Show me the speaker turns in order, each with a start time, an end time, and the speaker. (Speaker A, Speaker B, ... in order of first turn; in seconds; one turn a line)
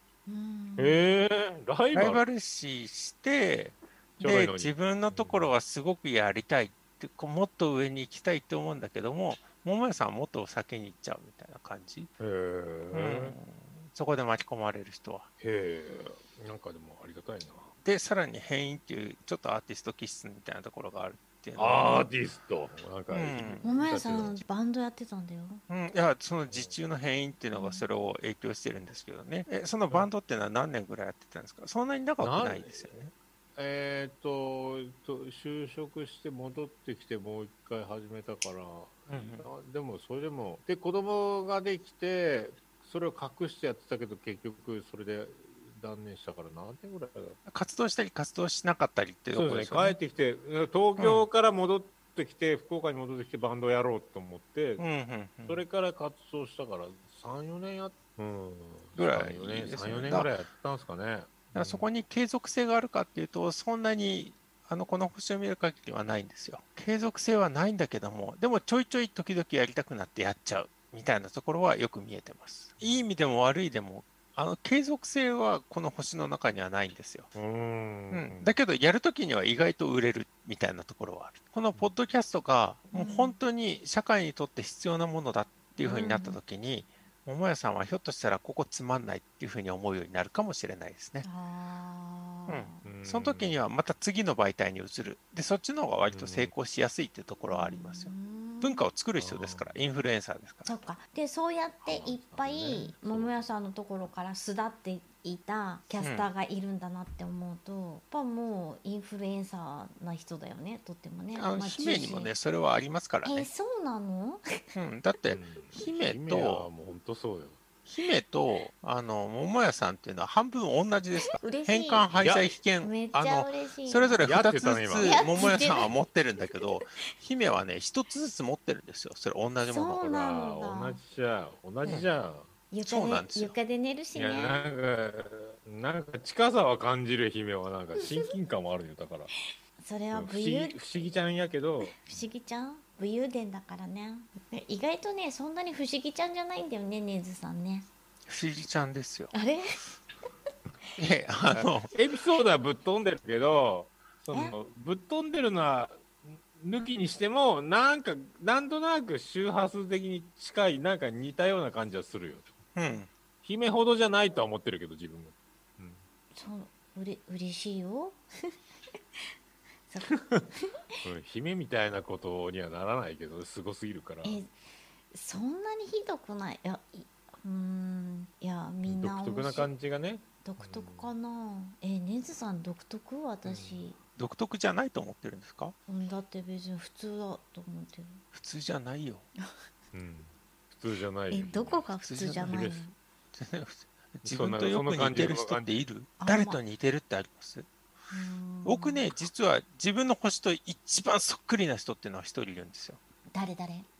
Speaker A: 0.2-1.0
Speaker B: 0.8-2.2
Speaker C: 1.9-12.1
Speaker B: 4.2-5.5
Speaker B: 12.2-13.4
Speaker C: 12.9-15.3
Speaker B: 15.4-17.7
Speaker C: 17.8-22.1
Speaker B: 21.6-24.4
Speaker C: 23.1-23.6
Speaker A: 23.6-25.6
Speaker C: 25.7-33.1
Speaker B: 26.5-26.8
Speaker A: 27.5-27.9
Speaker B: 32.2-33.0
Speaker B: 33.5-47.4
Speaker C: 39.1-39.5
Speaker C: 47.5-50.0
Speaker B: 49.3-54.9
Speaker C: 51.0-51.3
Speaker C: 54.8-55.6
Speaker B: 55.5-61.9
Speaker C: 59.0-60.3
Speaker C: 61.5-77.3
Speaker B: 77.3-78.5
Speaker C: 78.1-91.2
Speaker A: 82.9-83.4
Speaker A: 85.8-86.4
Speaker A: 91.2-92.9
Speaker C: 92.5-100.8
Speaker B: 92.8-93.6
Speaker B: 96.1-96.5
Speaker A: 97.5-98.8
Speaker B: 99.2-99.8
Speaker A: 100.7-112.3
Speaker B: 101.8-103.4
Speaker C: 106.0-106.3
Speaker C: 111.3-113.5
Speaker A: 113.2-114.4
Speaker C: 114.7-116.7
Speaker B: 115.3-117.6
Speaker C: 117.8-130.1
Speaker A: 121.3-122.1
Speaker B: 122.1-122.5
Speaker A: 122.8-124.3
Speaker B: 124.2-125.4
Speaker A: 125.0-125.9
Speaker A: 129.7-131.0
Speaker B: 130.0-132.5
Speaker A: 132.7-134.7
Speaker C: 132.8-133.5
Speaker B: 134.1-139.3
Speaker A: 139.8-140.8
Speaker B: 140.1-142.0
Speaker A: 141.9-147.9
Speaker C: 148.3-149.3
Speaker A: 149.3-149.6
Speaker C: 151.0-151.9
Speaker B: 151.5-162.5
Speaker C: 162.8-163.1
Speaker B: 163.4-166.0
Speaker A: 166.3-168.2
Speaker A: 169.9-170.7
Speaker B: 170.1-170.4
Speaker B: 171.0-174.4
Speaker A: 174.2-174.5
Speaker A: 175.1-179.7
Speaker B: 178.8-181.1
Speaker A: 180.4-184.0
Speaker B: 183.4-183.8
Speaker C: 184.2-185.8
Speaker A: 185.9-188.2
Speaker C: 188.3-189.3
Speaker B: 189.9-192.9
Speaker A: 191.3-192.9
Speaker C: 192.0-192.7
Speaker C: 193.3-197.7
Speaker B: 194.2-195.8
Speaker A: 196.2-196.6
Speaker A: 198.1-199.1
Speaker C: 198.6-203.0
Speaker A: 203.3-203.9